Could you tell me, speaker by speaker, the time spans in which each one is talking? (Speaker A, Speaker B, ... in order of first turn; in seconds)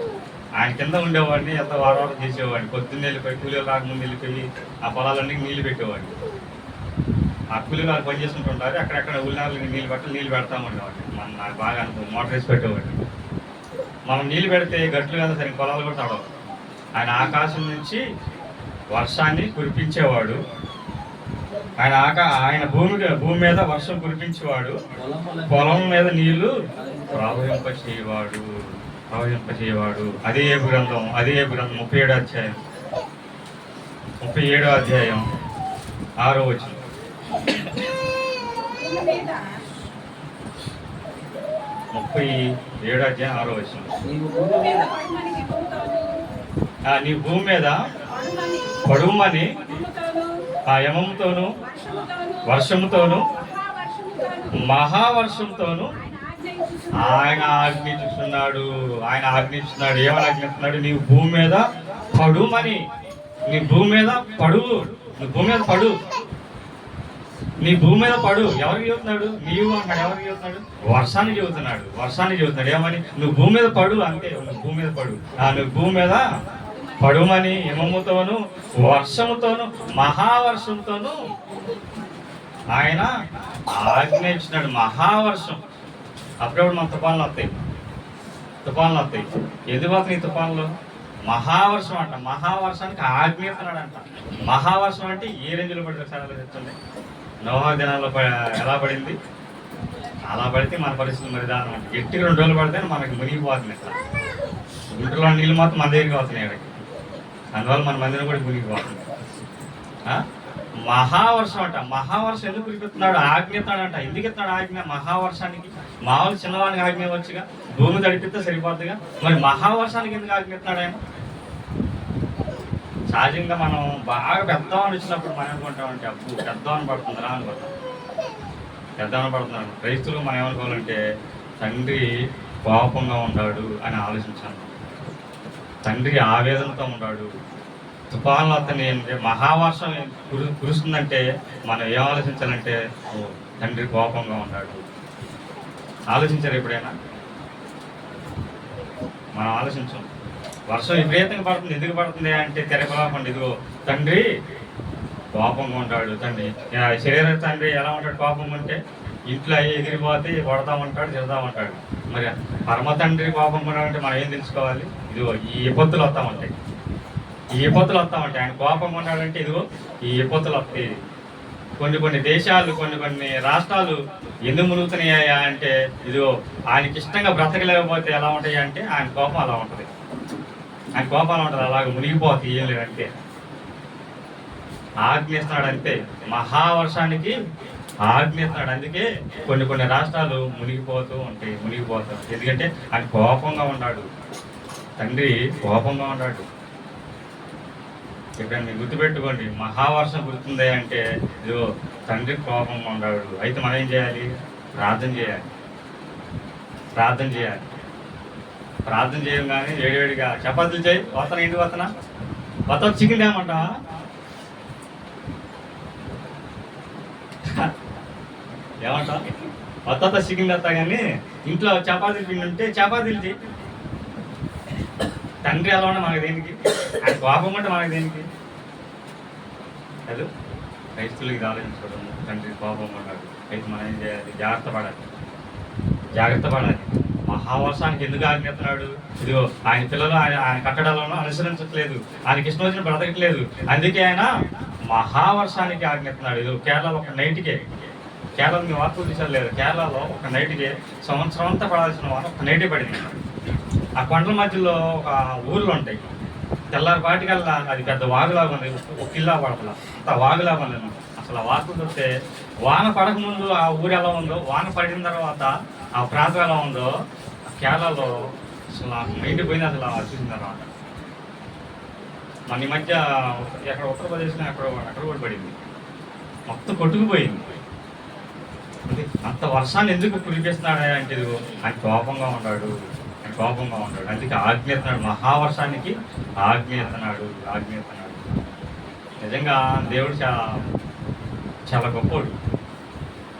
Speaker A: 0.6-6.2, 7.5-12.9, 14.1-16.2, 16.9-18.0, 18.9-20.4, 21.8-24.8, 25.5-26.5, 27.1-28.5, 29.1-32.6, 34.2-35.2, 36.2-36.8, 41.9-43.9, 46.9-47.8, 48.9-49.6, 50.7-51.5, 52.5-53.2, 54.5-55.9, 57.0-62.8, 63.5-66.0, 67.6-76.2, 77.0-81.2, 82.7-83.1, 83.7-85.6, 86.4-87.5, 88.6-90.7, 91.3-96.7, 97.4-99.2, 100.3-104.0, 104.9-106.8, 107.5-109.1, 110.9-121.0, 123.1-127.7, 129.0-131.0, 131.6-132.1, 132.7-134.7, 135.8-137.3, 138.1-144.8, 146.1-146.9, 149.3-150.1, 150.7-154.2, 155.3-166.5, 167.6-170.9, 171.8-179.9, 180.9-183.1, 185.0-187.3, 188.0-194.1, 195.0-196.4, 198.4-205.5, 206.9-207.7, 208.9-211.9, 212.7-213.8, 217.4-217.7, 218.8-219.3, 219.9-223.3, 225.4-228.3, 231.0-235.1, 236.2-244.3, 244.9-247.6, 248.4-253.2, 254.0-256.0, 256.7-262.1, 262.6-266.9, 267.5-270.6, 272.5-275.6, 276.5-277.5, 278.9-288.4, 289.2-290.4, 291.7-292.3
Speaker B: 24.9-26.1, 26.8-27.6, 44.0-44.9
Speaker C: 38.5-39.5, 44.5-46.1, 48.1-50.3, 51.6-54.7, 56.0-57.6, 76.7-77.8